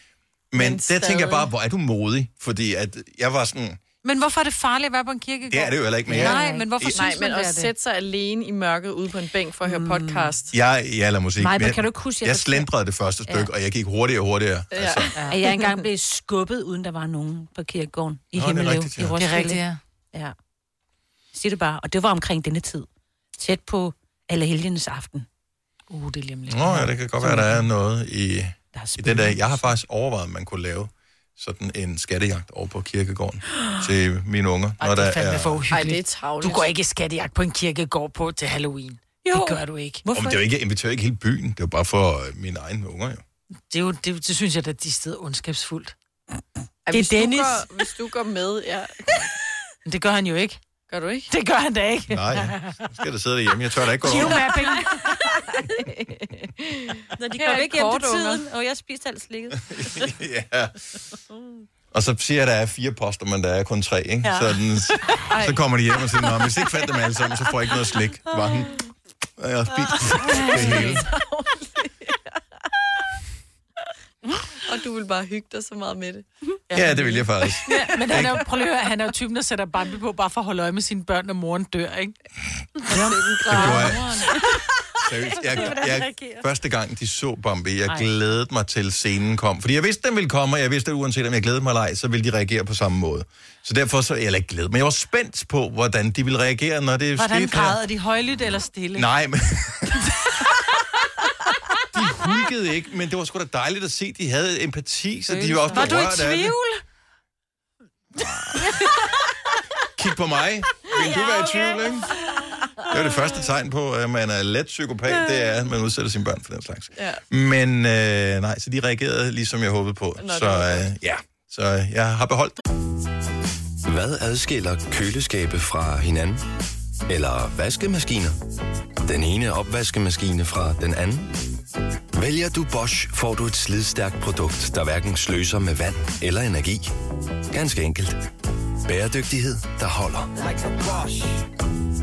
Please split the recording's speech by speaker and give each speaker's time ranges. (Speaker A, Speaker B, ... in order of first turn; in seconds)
Speaker A: 0.5-3.8, 5.5-7.0, 10.5-15.1, 18.3-19.1, 26.5-35.6, 40.1-43.2, 52.1-54.4, 59.7-60.8, 61.9-68.8, 69.4-71.0, 76.7-78.4, 83.5-84.1, 85.0-97.8, 98.9-100.1, 101.9-106.6, 108.2-108.6, 110.0-112.2, 112.9-122.6
Speaker B: 0.5-1.5, 6.9-10.5, 14.7-15.6, 35.7-36.7, 46.9-49.3, 50.9-51.3, 54.6-58.4, 65.3-65.6, 70.4-72.3, 74.6-76.2, 82.9-83.8, 117.0-117.2, 120.2-120.9
Speaker C: 4.0-7.7, 19.2-19.8, 25.9-27.6, 34.8-40.0, 43.7-45.9, 47.0-47.5, 49.8-50.6, 51.3-52.8, 54.0-55.0, 64.2-64.5, 70.5-71.0, 76.7-82.1, 82.9-84.3, 97.2-99.1, 105.7-106.5
Speaker D: 6.1-6.7, 9.6-10.3, 11.4-12.7, 15.3-20.3, 21.3-22.9, 23.4-25.2, 28.7-29.6, 39.2-40.4, 46.9-47.6, 57.2-60.1, 83.4-84.1, 85.0-86.4, 105.3-106.6, 110.9-111.9
Speaker E: 123.8-126.4, 127.1-128.3, 129.0-131.3, 132.1-136.9, 137.5-138.2, 138.8-140.3